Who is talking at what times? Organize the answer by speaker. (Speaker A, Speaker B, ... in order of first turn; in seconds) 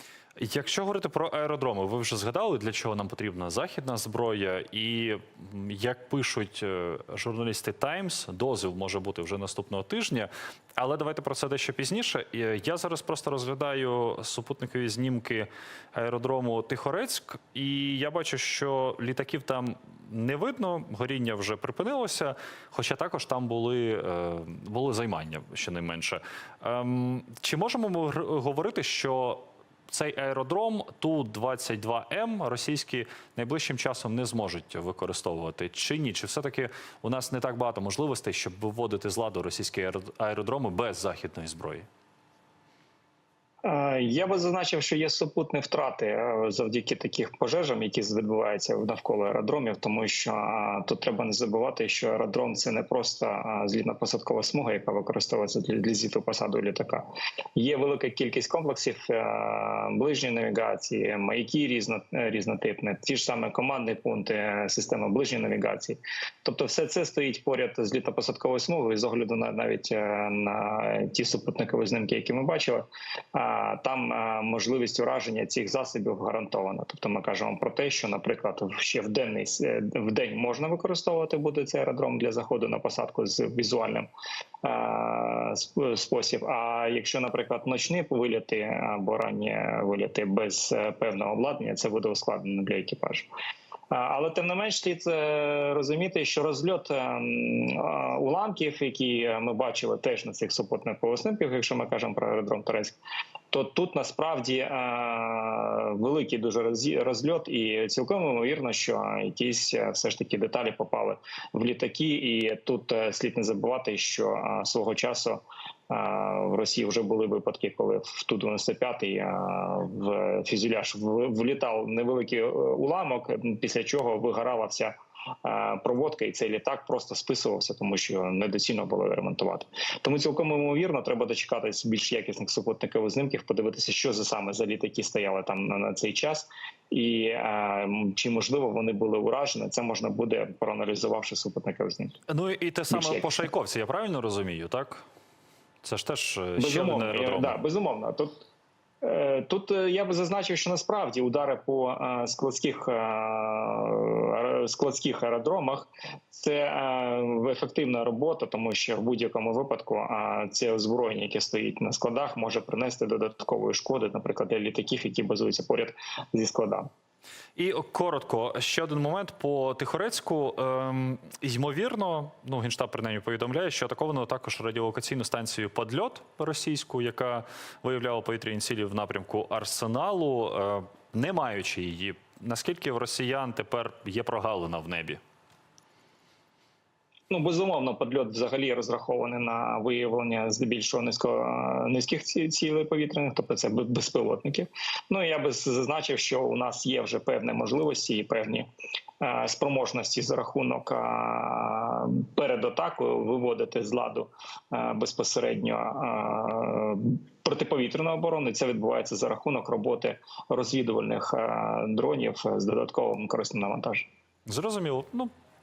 Speaker A: 0.4-41.9, 142.3-145.0, 145.8-147.6, 167.6-185.2, 214.5-215.3
Speaker B: 43.6-84.1, 84.6-93.3, 93.9-103.0, 103.5-142.2, 142.9-143.5, 146.6-148.4, 149.0-166.9, 187.3-198.7, 199.2-214.1